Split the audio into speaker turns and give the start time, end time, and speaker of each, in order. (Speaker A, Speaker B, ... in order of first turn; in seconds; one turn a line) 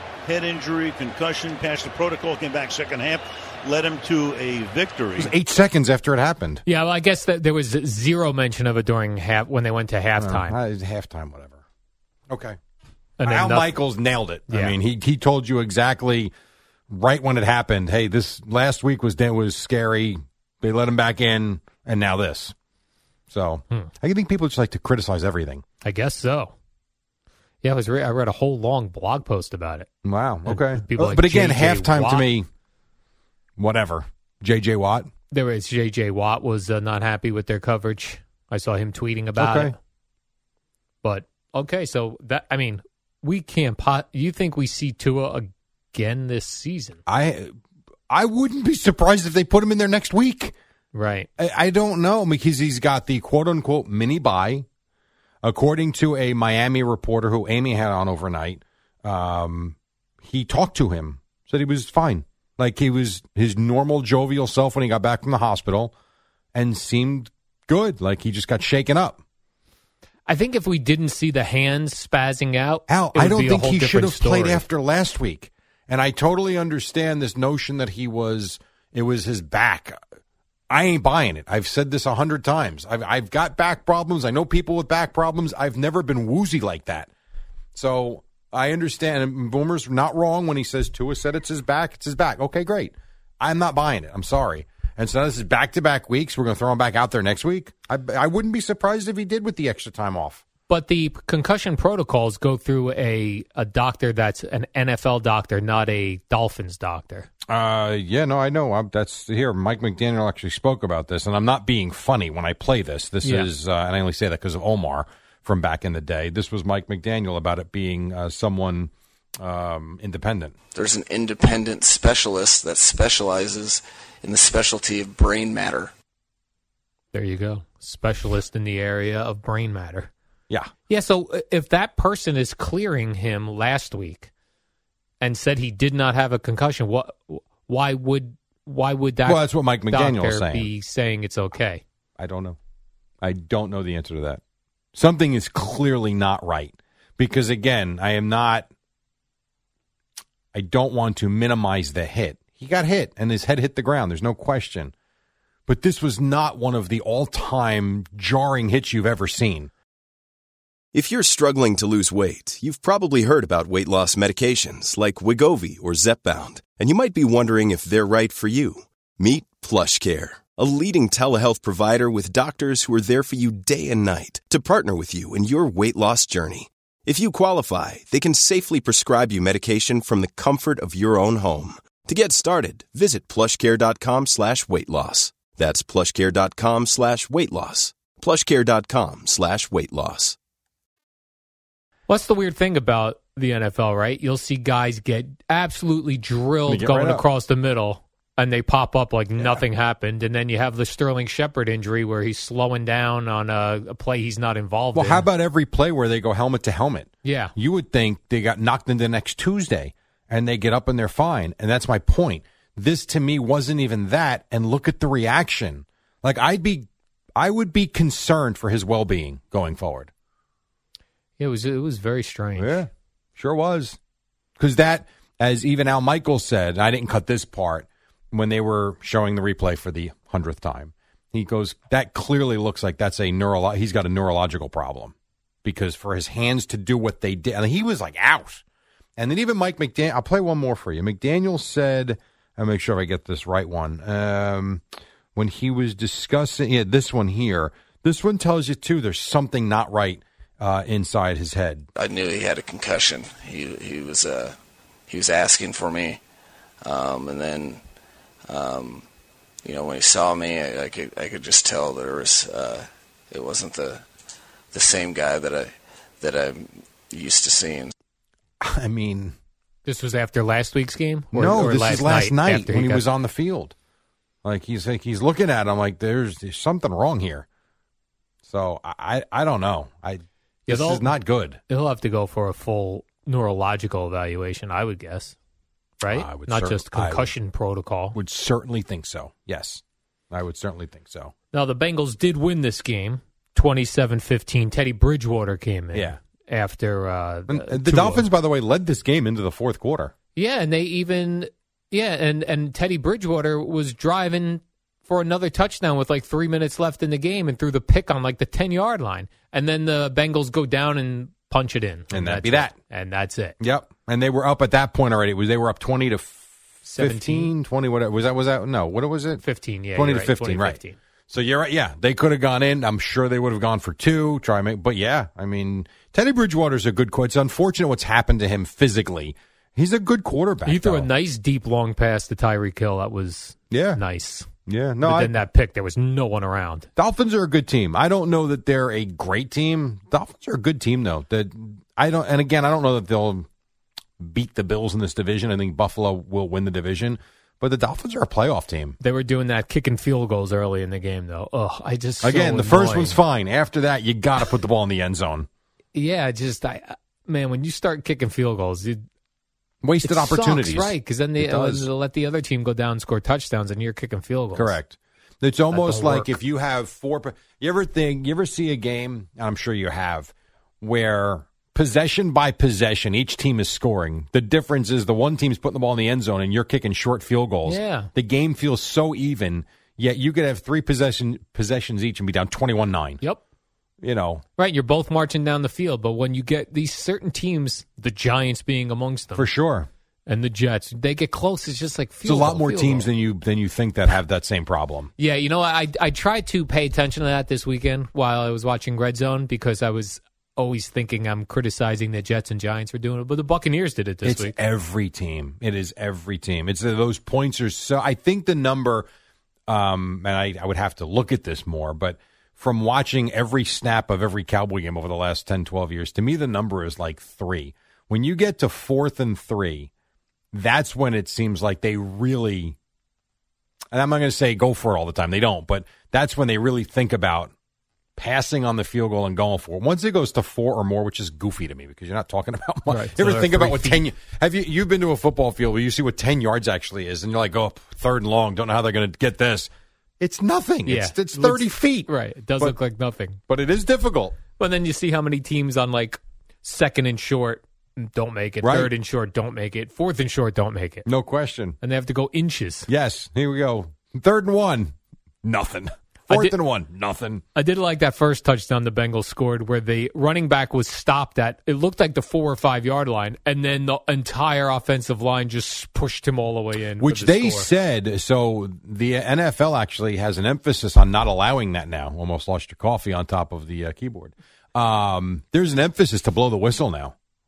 Speaker A: 0.2-5.3
Speaker B: 5.2-6.6
Speaker C: 6.7-10.6
Speaker B: 10.2-11.6
Speaker B: 12.3-12.6
Speaker C: 13.2-13.8
Speaker B: 13.2-16.3
Speaker C: 14.5-14.8
Speaker B: 16.9-22.5
Speaker B: 23.3-25.6
Speaker C: 25.8-26.5
Speaker C: 27.6-29.9
Speaker B: 30.0-32.5
Speaker C: 30.4-32.3
Speaker B: 33.6-35.1
Speaker C: 35.3-39.7
Speaker B: 39.4-39.7
Speaker C: 41.0-47.0
Speaker B: 47.1-47.5
Speaker B: 48.1-50.5
Speaker C: 50.9-51.3
Speaker B: 51.4-54.7
Speaker B: 55.4-65.9
Speaker B: 66.5-69.2
Speaker C: 70.3-74.7
Speaker B: 72.9-80.0
Speaker B: 80.7-87.1
Speaker B: 87.8-100.4
Speaker C: 100.7-107.3
Speaker B: 107.5-120.5
Speaker C: 113.2-113.5
Speaker D: 120.7-125.9
Speaker C: 127.1-130.1
Speaker C: 130.9-134.3
Speaker C: 135.2-141.8
Speaker B: 139.2-140.7
Speaker B: 142.2-142.6
Speaker B: 143.2-144.4
Speaker B: 144.9-148.7
Speaker B: 150.5-154.9
Speaker B: 155.7-159.7
Speaker E: 160.9-190.4
Speaker C: 192.1-205.3
Speaker B: 196.7-197.3
Speaker B: 199.4-199.6
Speaker B: 204.9-220.1
Speaker C: 207.2-207.5
Speaker C: 221.4-222.9
Speaker B: 222.6-224.0
Speaker B: 224.6-238.6
Speaker B: 239.2-244.8
Speaker B: 245.3-251.9
Speaker D: 252.0-254.6
Speaker D: 255.1-256.2
Speaker D: 256.8-257.8
Speaker D: 258.5-259.0
Speaker D: 259.6-264.0
Speaker D: 264.7-267.9
Speaker B: 268.6-269.4
Speaker C: 269.9-273.1
Speaker B: 271.3-273.7
Speaker B: 274.4-277.5
Speaker B: 278.5-281.6
Speaker C: 280.7-281.2
Speaker C: 281.7-285.4
Speaker C: 286.0-288.2
Speaker B: 286.1-287.3
Speaker B: 288.1-291.3
Speaker C: 291.5-298.3
Speaker B: 297.5-300.1
Speaker C: 300.4-313.6
Speaker B: 312.1-312.8
Speaker B: 313.6-319.4
Speaker C: 316.9-317.5
Speaker C: 319.4-321.0
Speaker B: 319.9-320.8
Speaker B: 321.3-331.1
Speaker C: 330.6-334.5
Speaker B: 333.7-334.0
Speaker B: 334.7-335.4
Speaker C: 335.0-336.9
Speaker B: 337.0-343.5
Speaker B: 344.2-349.0
Speaker C: 349.0-353.2
Speaker B: 352.2-355.5
Speaker C: 355.9-359.0
Speaker B: 359.8-361.9
Speaker C: 360.0-364.8
Speaker B: 364.5-383.2
Speaker C: 365.7-366.4
Speaker C: 377.7-378.1
Speaker B: 384.0-384.4
Speaker C: 384.6-389.5
Speaker B: 389.4-389.9
Speaker C: 390.3-393.1
Speaker B: 392.2-395.1
Speaker C: 395.2-404.6
Speaker B: 404.2-409.1
Speaker B: 409.7-419.9
Speaker B: 420.5-422.8
Speaker B: 423.9-427.5
Speaker B: 428.2-442.8
Speaker C: 432.9-434.0
Speaker C: 440.9-443.4
Speaker B: 443.5-444.4
Speaker C: 444.6-451.1
Speaker B: 448.6-448.9
Speaker B: 451.1-451.8
Speaker C: 451.8-452.9
Speaker B: 452.9-457.4
Speaker C: 456.3-456.6
Speaker C: 457.6-467.7
Speaker B: 467.0-477.1